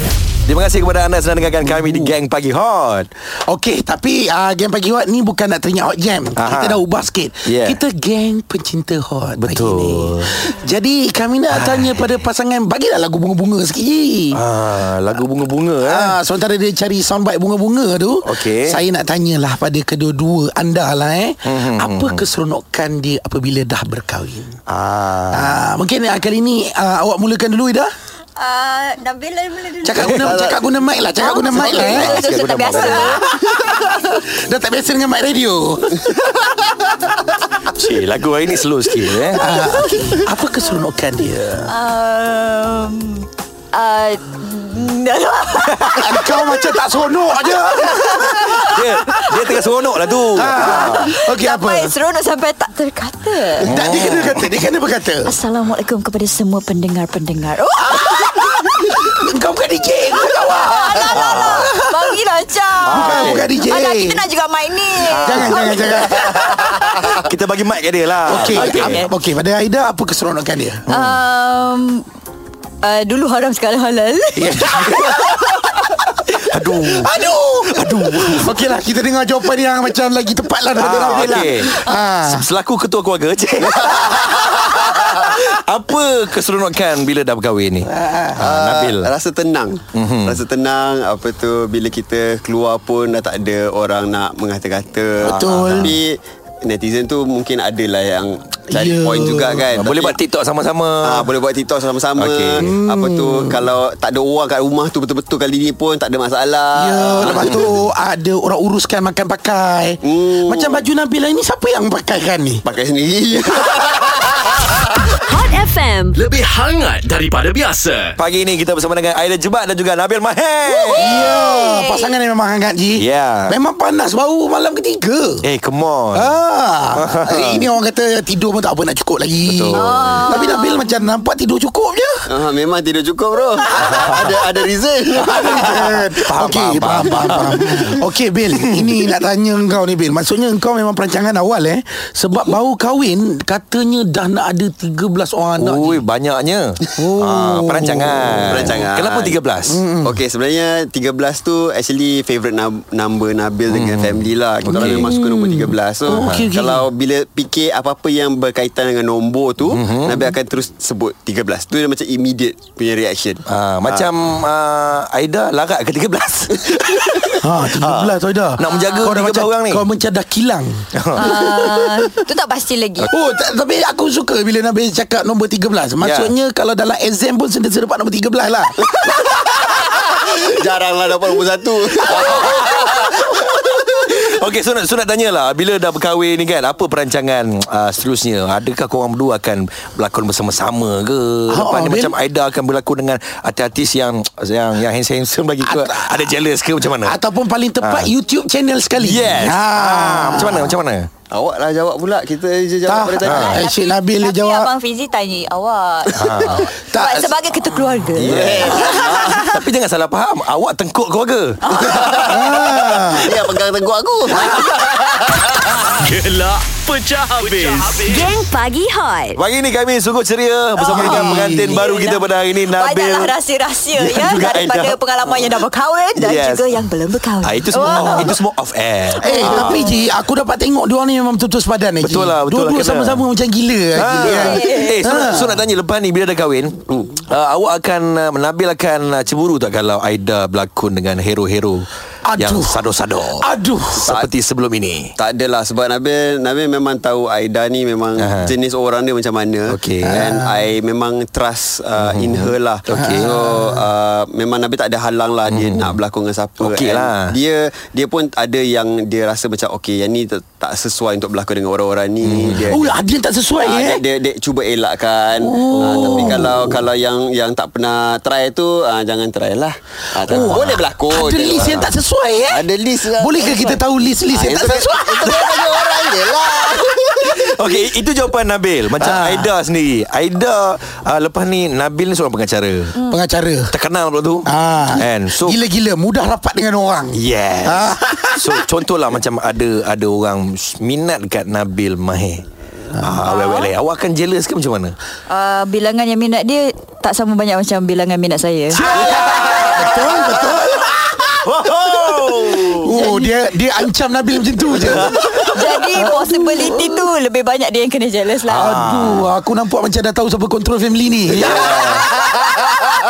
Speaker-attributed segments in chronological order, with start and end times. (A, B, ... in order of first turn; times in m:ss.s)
0:00.5-0:03.1 A
0:01.8-0:02.1 B
0:03.5-0:14.4 B
0:06.4-0:06.8 A
0:07.4-0:07.8 A
0:09.4-0:10.4 A
0:11.5-0:11.9 A
0:14.3-0:16.2 A
0:15.8-0:24.6 B
0:18.2-0:18.8 A
0:21.4-0:22.2 A
0:24.7-0:25.6 A
0:25.3-0:27.9 B
0:28.4-0:30.4 C
0:29.8-0:32.2 B
0:30.0-0:30.6 D
0:31.2-0:33.3 C
0:31.6-0:33.2 A
0:31.9-0:32.2 D
0:32.8-0:36.1 B
0:37.7-0:39.5 A
0:39.3-0:41.7 B
0:41.7-0:46.8 C
0:46.0-0:48.6 B
0:47.4-0:49.3 C
0:48.5-0:51.1 A
0:50.4-0:51.9 B
0:50.4-0:53.7 C
0:53.6-0:55.3 B
0:53.6-0:54.5 A
0:55.2-0:58.8 C
0:57.9-1:01.9 B
1:00.3-1:06.8 C
1:01.1-1:01.7 A
1:02.8-1:03.5 A
1:02.9-1:04.2 B
1:05.1-1:09.1 A
1:05.2-1:06.5 B
1:08.2-1:10.8 B
1:08.4-1:09.1 C
1:10.9-1:11.2 A
1:10.9-1:12.1 C
1:12.8-1:15.2 C
1:14.4-1:15.5 B
1:16.2-1:22.5 B
1:16.4-1:18.6 A
1:20.8-1:29.1 A
1:21.1-1:21.4 D
1:23.6-1:24.9 D
1:27.8-1:28.4 B
1:28.4-1:40.2 D
1:30.0-1:30.4 A
1:35.2-1:35.9 B
1:35.2-1:35.9 A
1:38.7-1:39.7 B
1:39.7-1:41.3 A
1:41.0-1:47.8 D
1:42.2-1:42.7 A
1:42.6-1:43.6 B
1:46.7-1:52.6 B
1:50.0-1:50.9 D
1:52.6-1:54.8 D
1:55.2-1:56.2 E
1:56.2-1:58.2 F
1:58.2-2:01.2 A
2:00.7-2:02.1 C
2:01.0-2:05.4 B
2:03.0-2:03.6 A
2:05.4-2:06.3 A
2:06.1-2:12.3 B
2:07.0-2:07.7 A
2:09.4-2:09.9 A
2:09.8-2:10.8 C
2:09.8-2:10.4 D
2:12.3-2:16.1 D
2:13.6-2:14.4 B
2:13.9-2:14.2 A
2:15.2-2:26.0 B
2:16.2-2:17.7 A
2:17.1-2:17.9 D
2:18.6-2:18.9 A
2:25.6-2:29.8 A
2:27.0-2:28.8 B
2:28.5-2:29.4 D
2:29.7-2:30.2 B
2:30.0-2:44.1 D
2:33.7-2:35.1 A
2:34.6-2:36.9 B
2:36.1-2:36.5 A
2:39.7-2:40.3 A
2:43.5-2:49.9 A
2:47.4-2:52.1 B
2:48.7-2:49.1 C
2:51.0-2:51.3 A
2:51.2-2:53.1 C
2:53.0-2:58.9 B
2:56.0-2:56.3 A
2:58.9-3:03.8 D
3:02.1-3:17.2 A
3:11.5-3:12.1 B
3:15.6-3:16.3 B
3:17.0-3:20.8 B
3:17.8-3:18.1 A
3:19.0-3:21.1 A
3:21.3-3:23.6 D
3:22.9-3:24.7 B
3:23.2-3:23.6 A
3:23.2-3:29.3 C
3:26.2-3:26.7 A
3:26.9-3:27.4 B
3:28.2-3:31.6 A
3:28.2-3:29.6 D
3:31.6-3:32.4 C
3:31.8-3:35.5 D
3:32.3-3:33.4 B
3:35.9-3:38.3 F
3:38.0-3:39.4 E
3:39.4-3:43.3 A
3:40.8-3:48.4 C
3:40.9-3:41.8 B
3:44.0-3:45.0 A
3:46.2-3:46.7 A
3:47.4-3:49.9 A
3:49.2-3:50.0 C
3:49.2-3:55.6 B
3:52.0-3:53.3 A
3:53.9-4:03.5 A
3:54.2-3:55.3 C
4:02.3-4:02.8 B
4:03.4-4:04.1 B
4:03.9-4:04.3 D
4:04.0-4:05.1 A
4:05.2-4:23.0 D
4:08.2-4:08.5 A
4:09.7-4:10.2 A
4:10.0-4:10.6 B
4:12.0-4:13.3 A
4:12.9-4:13.8 B
4:15.5-4:16.0 A
4:16.6-4:17.3 A
4:22.2-4:22.8 A
4:22.7-4:24.0 B
4:23.6-4:31.9 D
4:25.4-4:26.7 B
4:25.7-4:26.5 A
4:30.2-4:35.4 B
4:30.3-4:30.8 A
4:32.5-4:37.6 D
4:35.2-4:36.0 A
4:37.2-4:43.0 A
4:39.0-4:39.5 B
4:43.0-4:43.7 B
4:43.7-4:45.6 A
4:44.4-4:48.6 B
4:47.1-4:55.0 A
4:53.0-4:53.2 B
4:53.3-4:53.7 C
4:55.3-4:59.0 C
4:58.7-5:01.3 B
4:58.9-5:00.4 A
4:59.2-4:59.6 D
5:01.4-5:03.1 A
5:02.8-5:07.0 B
5:02.9-5:03.3 C
5:04.7-5:05.6 A
5:05.5-5:08.8 C
5:08.5-5:09.3 A
5:08.6-5:13.0 B
5:11.3-5:12.1 A